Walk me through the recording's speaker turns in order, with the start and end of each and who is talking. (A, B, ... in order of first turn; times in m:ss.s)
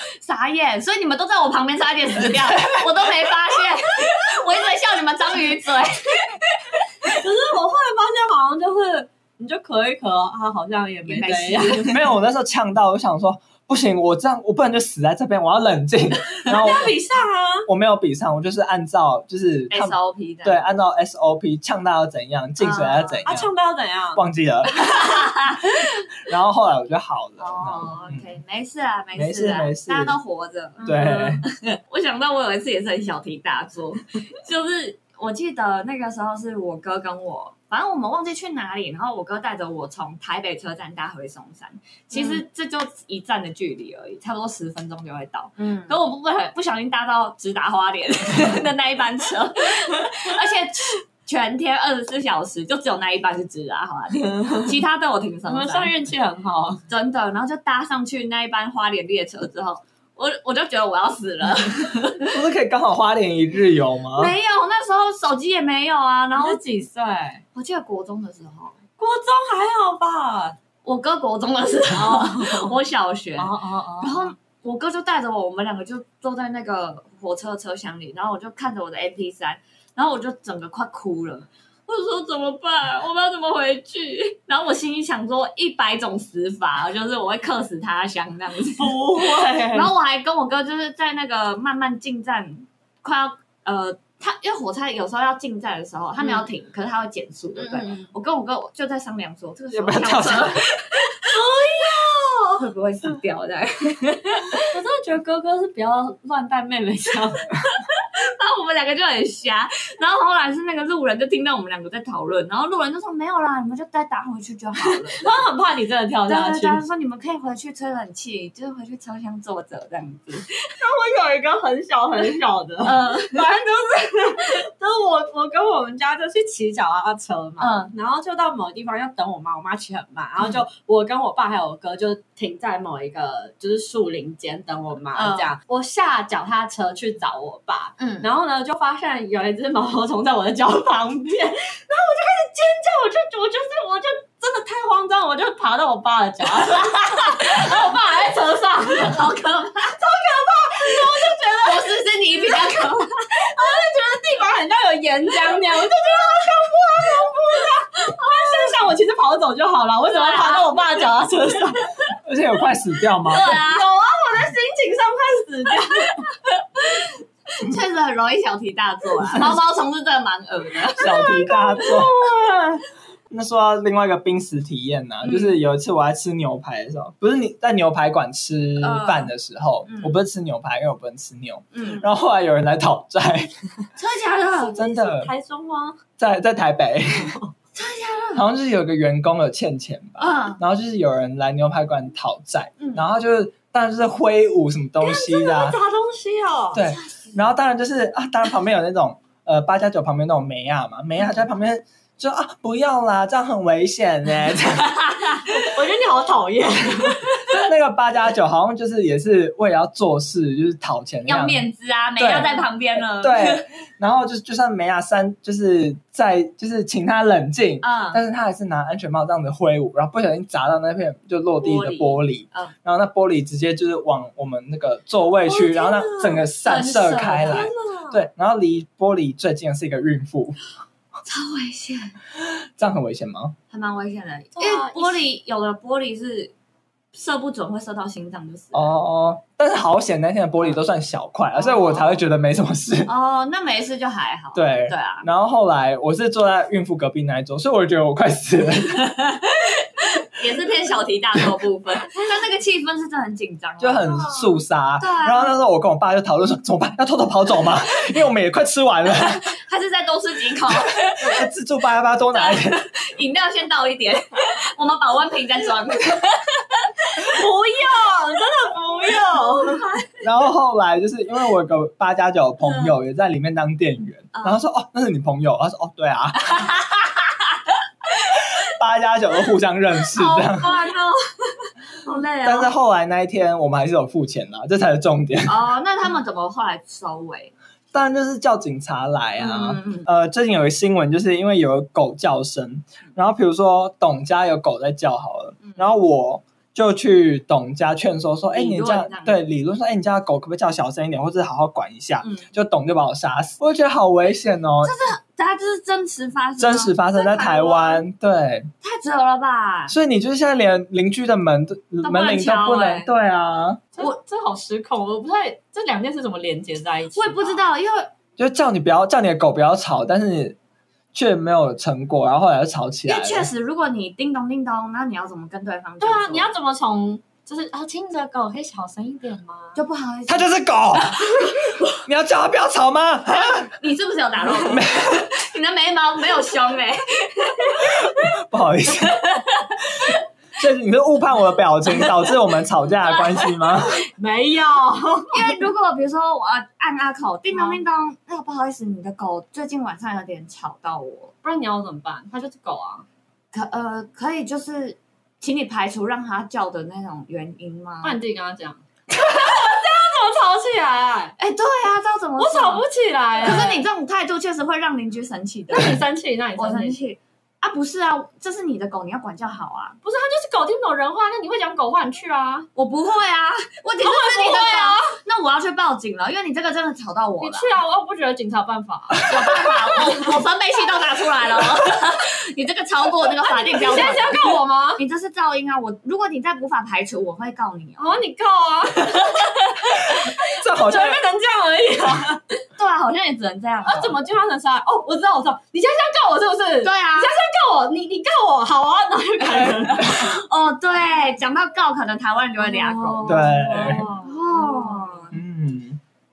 0:00.2-0:07.2 A
0:02.2-0:02.8 B
0:07.1-0:12.0 C
0:11.1-0:11.9 A
0:11.8-0:17.0 B
0:16.5-0:17.7 C
0:17.7-0:23.5 B
0:19.7-0:20.6 A
0:22.6-0:23.3 A
0:23.3-0:24.2 C
0:24.2-0:24.7 B
0:24.8-0:25.7 A
0:26.2-0:28.2 B
0:27.4-0:55.9 A
0:29.2-0:30.2 B
0:30.8-0:31.4 C
0:30.8-0:31.4 B
0:42.1-0:42.4 C
0:45.6-0:46.0 C
0:54.4-0:54.7 C
0:55.5-0:56.8 C
0:56.9-1:02.3 A
1:02.3-1:04.3 B
1:04.2-1:06.6 A
1:06.4-1:07.4 C
1:07.6-1:08.8 A
1:09.0-1:10.6 C
1:10.8-1:41.3 A
1:11.9-1:12.8 C
1:13.4-1:14.3 C
1:28.8-1:29.9 C
1:37.6-1:38.1 C
1:39.7-1:40.6 B
1:41.2-1:42.6 C
1:42.6-1:44.6 A
1:44.6-1:47.5 C
1:47.8-1:55.4 A
1:55.1-1:56.8 C
1:56.3-2:00.5 A
2:00.7-2:29.3 C
2:02.8-2:03.5 A
2:07.6-2:07.9 A
2:15.1-2:15.5 A
2:18.0-2:18.3 A
2:27.0-2:27.8 A
2:29.0-2:30.0 A
2:30.0-2:32.0 C
2:30.8-2:33.4 A
2:32.6-2:42.1 C
2:40.1-2:40.7 A
2:42.2-2:43.6 B
2:43.3-2:43.9 A
2:43.3-2:46.2 C
2:47.6-2:51.3 A
2:51.0-2:52.1 B
2:51.0-2:52.8 C
2:53.3-3:03.5 B
2:55.2-2:55.6 A
2:58.8-2:59.3 A
2:59.8-3:00.2 A
3:01.7-3:02.1 A
3:04.0-3:04.8 A
3:04.6-3:06.0 C
3:04.8-3:05.3 B
3:06.2-3:07.4 B
3:07.1-3:07.5 C
3:07.8-3:08.4 A
3:08.3-3:15.8 B
3:10.2-3:10.6 A
3:12.8-3:13.0 A
3:15.0-3:16.8 C
3:16.7-3:25.0 B
3:16.9-3:17.4 A
3:25.0-3:25.5 A
3:25.6-3:27.4 C
3:27.4-3:31.7 B
3:31.3-3:33.7 A
3:32.2-3:32.5 B
3:33.2-3:50.6 B
3:37.8-3:38.2 A
3:41.6-3:42.7 A
3:45.5-3:46.5 C
3:46.6-3:47.7 A
3:47.4-3:48.2 C
3:51.3-3:52.2 A
3:52.4-3:53.6 B
3:53.7-3:56.5 A
3:54.6-3:55.2 C
3:57.1-3:58.9 A
3:58.7-4:03.1 B
4:01.5-4:02.2 A
4:03.1-4:05.3 A
4:04.5-4:09.2 B
4:09.2-4:15.5 A
4:13.8-4:19.5 B
4:19.2-4:21.4 A
4:21.0-4:22.8 B
4:22.3-4:26.9 A
4:27.2-4:29.9 C
4:30.2-4:36.4 B
4:34.3-4:34.6 A
4:36.4-4:37.2 A
4:38.6-4:40.7 B
4:40.2-4:41.7 C
4:42.0-4:42.7 A
4:42.4-4:45.6 B
4:45.5-4:47.5 A
4:47.9-5:05.0 B
4:49.4-4:50.1 A
4:58.5-4:59.4 A
5:02.2-5:02.5 A
5:04.8-5:08.0 A
5:06.6-5:08.7 B
5:08.8-5:09.9 A
5:09.9-5:13.8 B
5:12.0-5:13.1 A
5:14.0-5:17.6 C
5:17.1-5:18.1 A
5:18.4-5:20.6 B
5:21.1-5:23.5 B
5:23.1-5:26.5 A
5:26.0-5:29.8 C
5:29.8-5:31.5 A
5:30.3-5:33.7 B
5:33.7-5:38.2 A
5:34.5-5:35.3 B
5:37.8-5:39.2 B
5:39.1-5:39.8 A
5:40.6-5:44.0 B
5:44.1-5:45.6 C
5:45.3-5:51.3 A
5:47.5-5:47.8 C
5:51.4-5:53.1 C
5:53.5-5:58.2 A
5:58.0-6:01.4 C
5:59.3-5:59.5 A
6:01.4-6:02.8 A
6:02.4-6:03.9 C
6:03.4-6:06.0 A
6:05.7-6:07.0 C
6:06.6-6:10.0 A
6:10.0-6:12.7 C
6:12.8-6:17.7 A
6:14.0-6:15.2 C
6:17.4-6:20.3 C
6:19.2-6:28.2 A
6:23.4-6:25.0 C
6:28.0-6:32.4 C
6:30.0-6:31.2 B
6:32.8-6:34.2 A
6:33.8-6:40.4 C
6:36.8-6:37.3 A
6:39.5-6:40.4 B
6:40.0-6:45.4 A
6:42.6-6:45.3 C
6:43.2-6:44.1 B
6:45.3-6:46.0 B